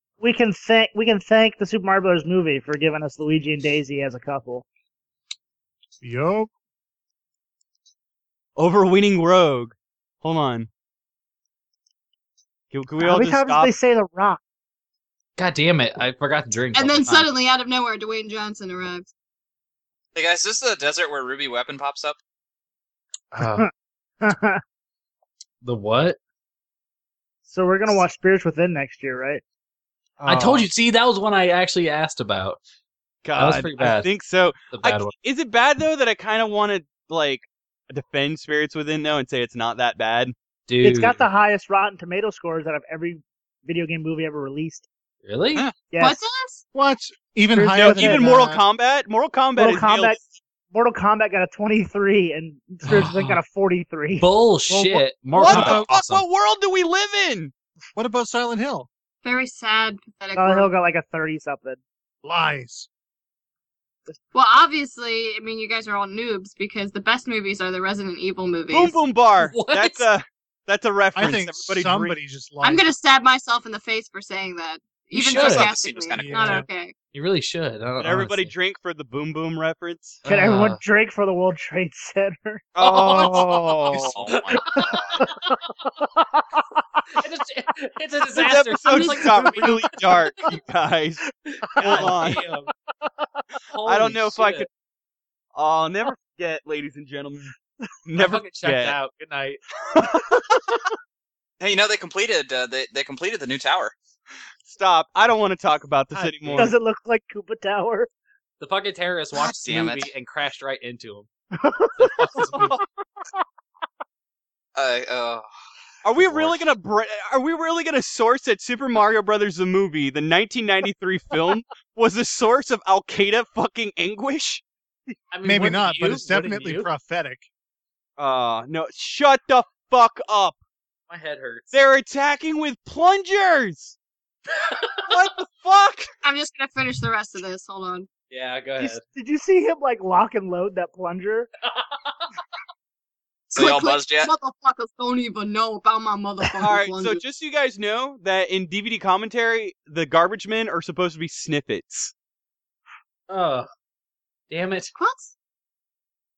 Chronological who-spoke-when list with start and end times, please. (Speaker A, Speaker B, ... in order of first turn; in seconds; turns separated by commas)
Speaker A: 0.2-4.7, Speaker B: 6.0-6.5, Speaker C: 8.6-10.7, Speaker C: 12.7-13.7, Speaker A: 13.0-14.4, Speaker D: 15.4-17.3, Speaker E: 16.7-19.1, Speaker F: 20.1-22.2, Speaker D: 23.3-23.7, Speaker A: 23.4-23.7, Speaker A: 24.2-24.6, Speaker D: 25.6-26.2, Speaker A: 27.5-29.4, Speaker C: 30.2-30.7, Speaker D: 30.2-32.6, Speaker C: 33.2-40.3, Speaker D: 33.4-34.1, Speaker D: 34.7-35.1, Speaker D: 40.7-41.2, Speaker A: 40.8-44.9, Speaker D: 45.2-45.7, Speaker A: 45.9-46.2, Speaker E: 46.0-46.6, Speaker B: 46.7-48.6, Speaker A: 47.5-48.3, Speaker C: 47.8-50.2, Speaker A: 49.6-55.0, Speaker D: 52.9-53.4, Speaker D: 54.2-56.2, Speaker C: 55.3-57.5, Speaker F: 55.5-55.7, Speaker B: 58.0-58.9, Speaker E: 59.2-60.7, Speaker A: 60.4-61.8, Speaker B: 62.2-62.9, Speaker E: 64.3-69.0, Speaker C: 68.7-72.2, Speaker D: 69.4-70.0, Speaker B: 71.2-72.9, Speaker E: 72.6-77.0, Speaker D: 75.1-75.7, Speaker F: 75.2-76.7, Speaker B: 76.2-76.7, Speaker D: 77.1-78.5, Speaker C: 78.0-80.2, Speaker D: 80.2-80.8, Speaker A: 80.3-83.7, Speaker C: 82.8-84.2, Speaker D: 83.0-83.5, Speaker F: 83.9-85.2, Speaker D: 84.3-85.2, Speaker A: 84.7-85.4, Speaker A: 86.2-87.0, Speaker D: 87.1-90.2, Speaker C: 88.3-91.2, Speaker E: 88.9-89.6, Speaker D: 91.5-92.7, Speaker C: 91.8-92.5, Speaker A: 91.8-92.5, Speaker D: 93.7-94.7, Speaker C: 93.8-94.7, Speaker C: 95.5-97.5, Speaker C: 98.1-99.0, Speaker D: 98.2-99.6, Speaker C: 99.9-100.6, Speaker F: 101.6-103.9, Speaker C: 104.7-106.7, Speaker D: 106.1-106.8, Speaker A: 106.6-108.1, Speaker D: 108.6-111.3, Speaker F: 109.3-110.1, Speaker A: 111.6-112.5, Speaker D: 112.0-112.8, Speaker C: 112.5-112.8, Speaker F: 114.8-115.5, Speaker C: 116.0-124.6, Speaker F: 116.2-116.5, Speaker D: 125.3-126.9, Speaker B: 125.4-127.5, Speaker C: 128.2-130.6, Speaker D: 131.1-131.7, Speaker C: 131.7-134.0, Speaker D: 134.5-135.2, Speaker C: 135.1-136.1, Speaker E: 136.2-138.1, Speaker D: 138.3-139.0, Speaker A: 138.8-141.5, Speaker D: 141.6-142.3, Speaker F: 143.5-144.3, Speaker E: 143.5-147.2, Speaker C: 146.6-152.1, Speaker D: 153.3-153.7, Speaker D: 154.5-154.9, Speaker E: 155.0-155.3